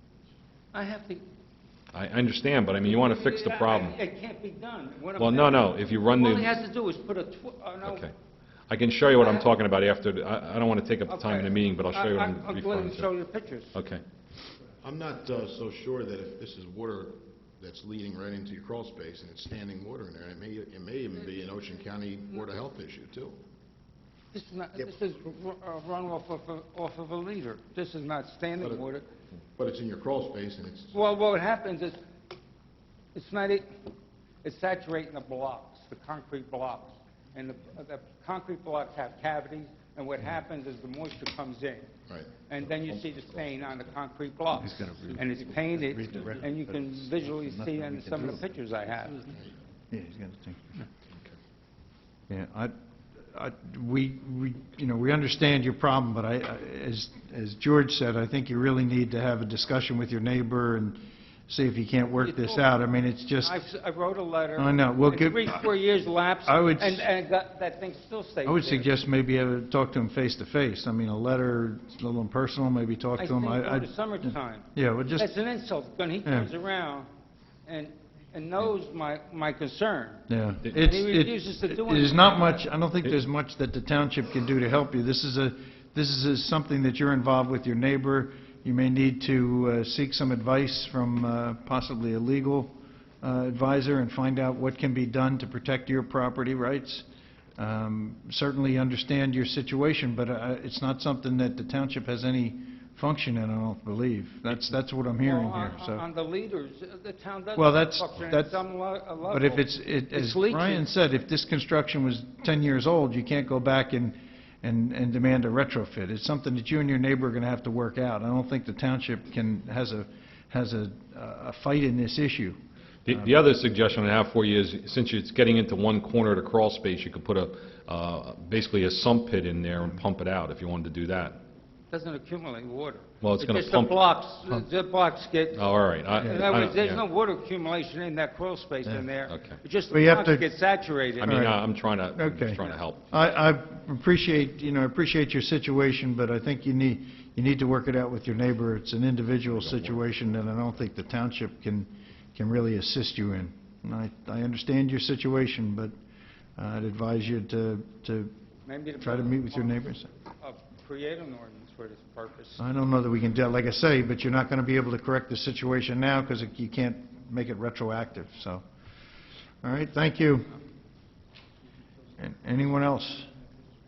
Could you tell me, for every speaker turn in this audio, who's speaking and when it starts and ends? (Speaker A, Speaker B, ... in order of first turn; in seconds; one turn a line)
Speaker A: 0.7-1.2
Speaker B: 1.9-4.0
Speaker A: 2.8-8.0
Speaker B: 5.2-6.5
Speaker B: 7.8-8.1
Speaker B: 8.7-13.1
Speaker A: 9.2-9.5
Speaker A: 11.1-13.7
Speaker B: 13.7-14.0
Speaker C: 14.8-23.4
Speaker A: 24.3-29.1
Speaker C: 29.6-31.0
Speaker A: 30.9-32.0
Speaker A: 33.1-33.7
Speaker A: 34.4-41.9
Speaker C: 42.1-43.6
Speaker A: 42.5-49.3
Speaker D: 44.6-46.9
Speaker D: 47.5-48.3
Speaker D: 49.9-50.8
Speaker D: 52.3-52.7
Speaker D: 53.3-63.6
Speaker A: 62.2-62.6
Speaker A: 63.4-68.9
Speaker D: 64.6-65.7
Speaker D: 66.5-67.1
Speaker D: 68.5-75.3
Speaker A: 73.2-74.7
Speaker A: 75.2-77.1
Speaker D: 76.2-76.5
Speaker A: 77.7-82.6
Speaker D: 80.3-97.0
Speaker D: 97.6-106.0
Speaker A: 105.2-110.8
Speaker D: 107.5-108.6
Speaker D: 109.3-122.6
Speaker B: 123.1-131.4
Speaker A: 131.9-141.3
Speaker B: 133.2-134.0
Speaker B: 135.6-137.0
Speaker B: 139.3-139.6
Speaker D: 139.9-140.5
Speaker B: 141.2-143.1
Speaker D: 141.2-155.9
Speaker B: 149.5-150.0
Speaker D: 156.6-158.3
Speaker A: 158.7-159.9
Speaker D: 159.0-160.1
Speaker A: 160.4-162.6
Speaker D: 162.6-168.6
Speaker D: 169.6-170.6
Speaker D: 172.2-173.3